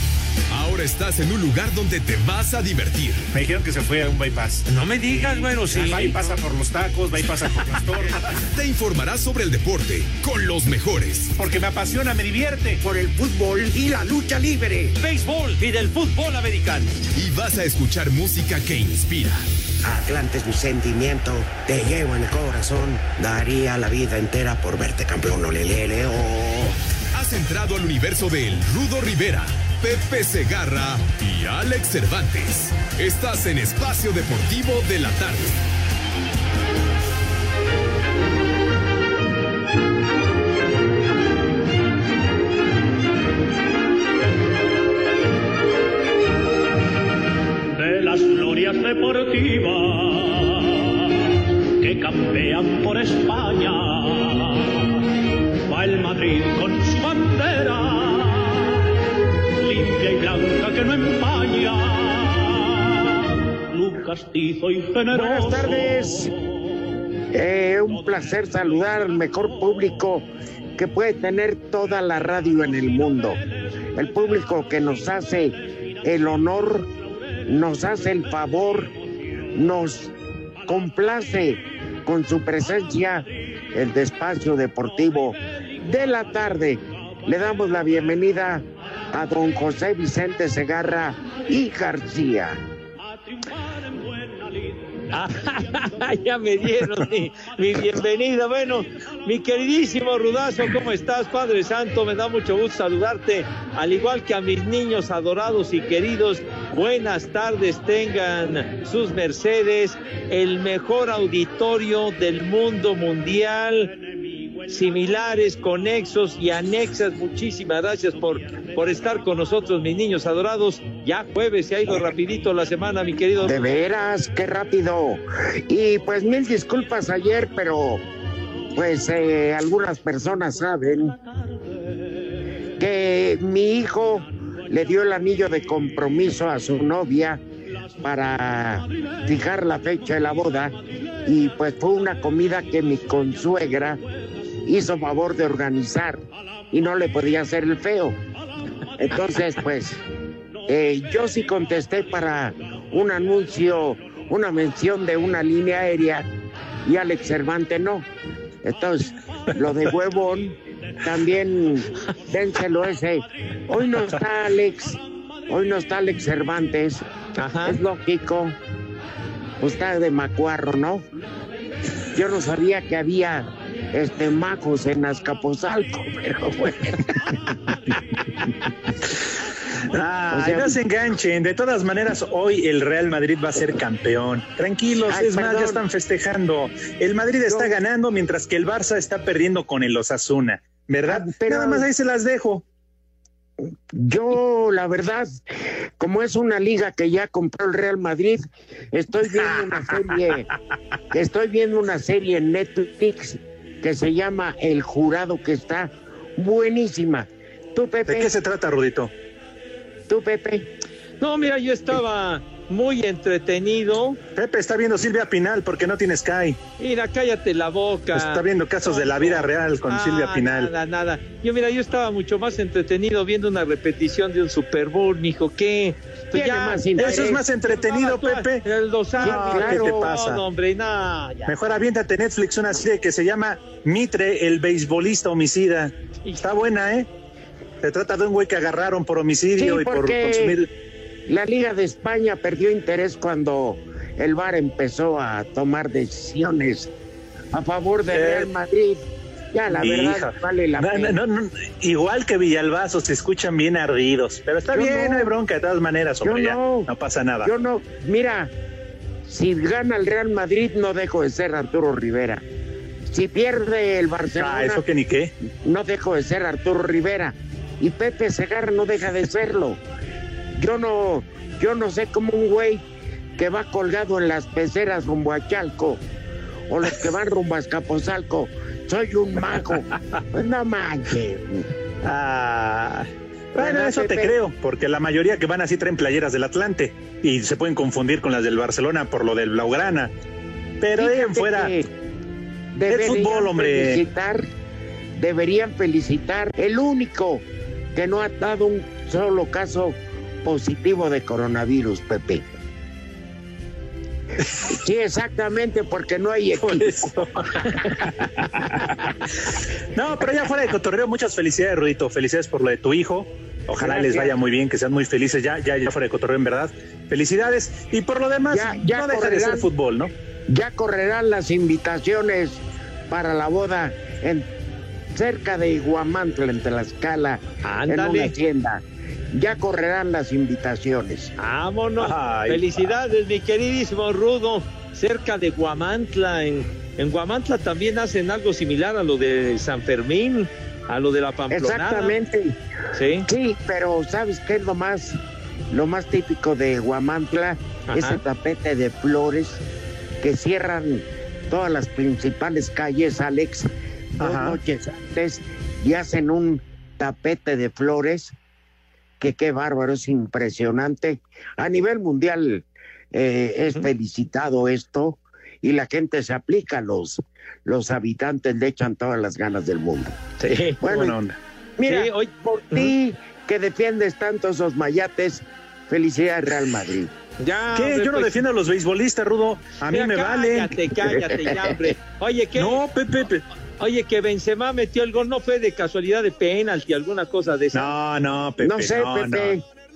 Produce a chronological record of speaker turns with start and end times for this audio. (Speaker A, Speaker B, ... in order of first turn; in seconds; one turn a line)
Speaker A: 0.5-3.3
Speaker B: 3.3-8.3
Speaker C: 4.7-6.2
Speaker A: 8.5-11.4
Speaker B: 11.4-12.8
Speaker D: 12.8-15.0
Speaker C: 15.0-16.9
Speaker A: 17.2-19.5
Speaker D: 19.8-26.8
Speaker A: 27.1-35.6
Speaker E: 47.7-51.0
Speaker E: 51.8-55.0
Speaker E: 55.7-58.8
Speaker E: 59.6-66.1
Speaker D: 65.1-66.3
Speaker D: 67.3-73.4
Speaker D: 74.0-76.9
Speaker D: 77.5-78.9
Speaker D: 79.5-80.1
Speaker D: 80.7-92.6
Speaker C: 95.1-114.0
Speaker C: 114.7-123.7
Speaker D: 123.4-128.0
Speaker D: 128.7-131.2
Speaker D: 132.8-137.4
Speaker D: 138.0-144.0
Speaker D: 144.6-148.2
Speaker D: 149.0-150.0
Speaker D: 150.7-156.3
Speaker D: 156.8-158.1
Speaker D: 158.6-167.1
Speaker C: 167.4-167.8
Speaker D: 167.7-168.6
Speaker D: 169.6-171.0
Speaker D: 172.1-177.2
Speaker B: 179.9-192.6
Speaker D: 180.3-180.8
Speaker D: 185.1-185.8
Speaker D: 187.5-187.7
Speaker D: 191.1-191.9
Speaker D: 193.9-195.4
Speaker D: 196.0-200.5
Speaker D: 201.1-208.3
Speaker B: 208.1-209.1
Speaker D: 210.1-210.7
Speaker C: 211.2-214.2
Speaker B: 214.3-216.6
Speaker C: 216.8-231.6
Speaker B: 218.2-220.7
Speaker D: 226.3-227.4
Speaker B: 227.0-228.7
Speaker B: 229.2-230.4
Speaker D: 229.2-230.2
Speaker B: 231.5-237.1
Speaker B: 237.8-240.7
Speaker D: 239.6-240.7
Speaker D: 241.3-246.9
Speaker D: 247.5-251.2
Speaker B: 248.1-248.5
Speaker B: 249.7-257.5
Speaker D: 254.7-255.3
Speaker D: 256.2-256.9
Speaker D: 257.4-258.5
Speaker D: 259.3-262.4
Speaker D: 263.1-264.8
Speaker B: 264.4-265.3
Speaker D: 265.6-269.8
Speaker D: 270.6-272.8
Speaker D: 273.4-276.0
Speaker D: 276.7-281.7
Speaker B: 282.0-290.1
Speaker D: 283.6-284.4
Speaker B: 290.8-291.8
Speaker D: 291.0-291.9
Speaker D: 292.7-294.5
Speaker B: 292.9-294.0
Speaker D: 295.2-302.4
Speaker D: 304.6-307.2
Speaker B: 306.6-307.8
Speaker B: 309.9-320.1
Speaker D: 313.8-314.4
Speaker D: 318.5-319.7
Speaker D: 320.5-324.5
Speaker D: 325.1-331.3
Speaker C: 327.6-328.3
Speaker C: 331.4-342.2
Speaker B: 332.0-332.7
Speaker D: 341.5-342.6
Speaker C: 342.9-343.3
Speaker D: 343.2-345.2
Speaker D: 345.7-349.6
Speaker C: 347.9-348.2
Speaker D: 350.2-358.3
Speaker B: 354.2-354.6
Speaker D: 359.2-370.1
Speaker C: 370.4-370.8
Speaker D: 370.8-371.2
Speaker B: 370.8-371.4
Speaker D: 371.8-377.1
Speaker C: 371.9-372.9
Speaker C: 377.4-378.4
Speaker B: 377.8-380.8
Speaker C: 379.9-382.8
Speaker D: 381.3-381.9
Speaker B: 382.6-383.4
Speaker C: 383.8-387.9
Speaker B: 387.7-389.6
Speaker D: 388.6-389.6